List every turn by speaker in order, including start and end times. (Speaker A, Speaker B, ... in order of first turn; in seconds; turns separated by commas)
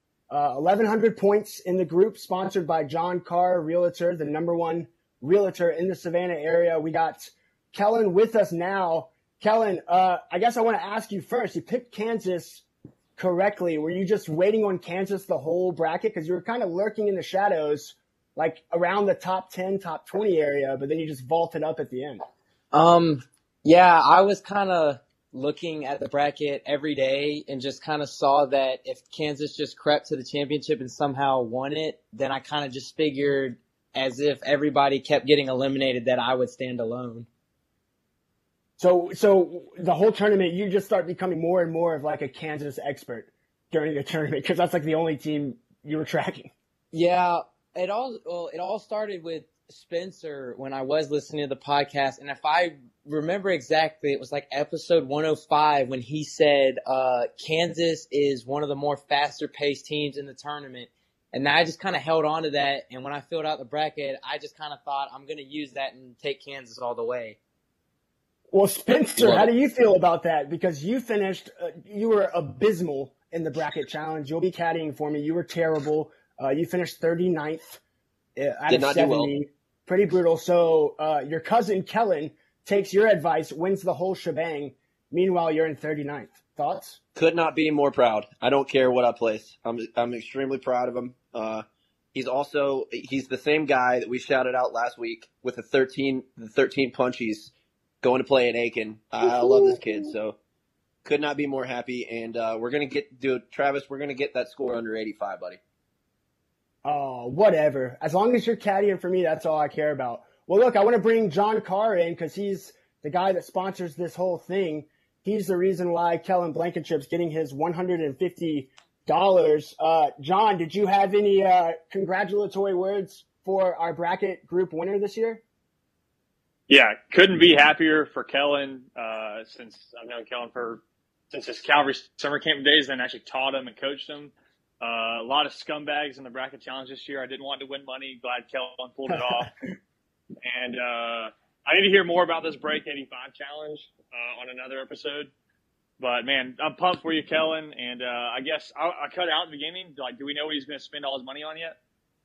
Speaker A: 0.3-12.6, Speaker A: 13.2-22.2, Speaker B: 22.7-37.3, Speaker A: 38.8-46.5, Speaker B: 46.9-67.4, Speaker A: 68.5-77.8, Speaker C: 69.2-69.5, Speaker A: 78.4-87.0, Speaker C: 78.7-79.3, Speaker C: 87.2-100.4, Speaker C: 101.0-105.6, Speaker A: 106.8-125.4, Speaker D: 126.7-139.5, Speaker A: 139.1-139.5, Speaker D: 140.4-145.3, Speaker D: 146.0-151.8